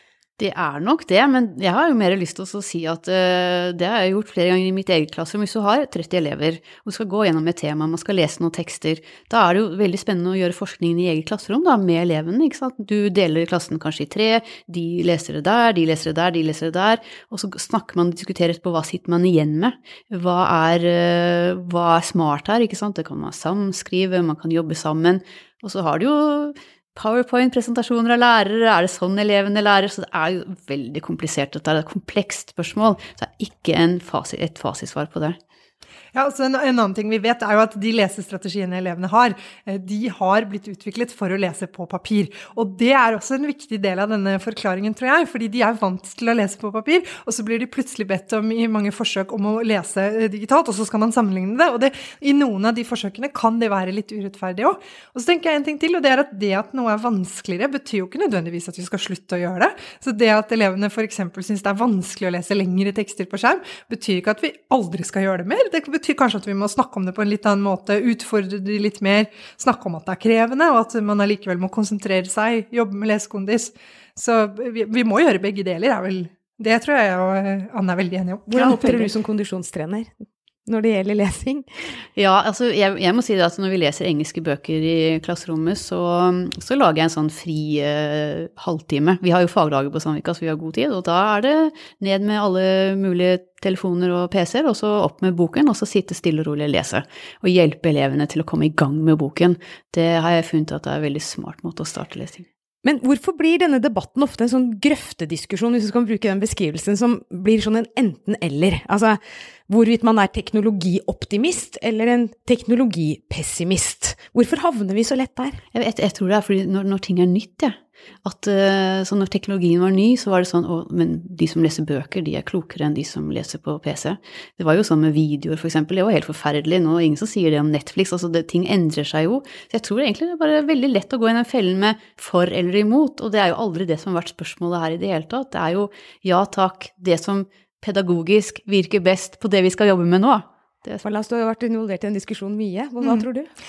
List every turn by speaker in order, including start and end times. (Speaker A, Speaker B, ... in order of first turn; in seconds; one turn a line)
Speaker A: 0.4-35.4
Speaker B: 36.1-79.1
Speaker C: 78.5-81.7
Speaker A: 82.2-102.5
Speaker C: 102.8-115.6
Speaker A: 115.7-141.0
Speaker C: 141.0-143.5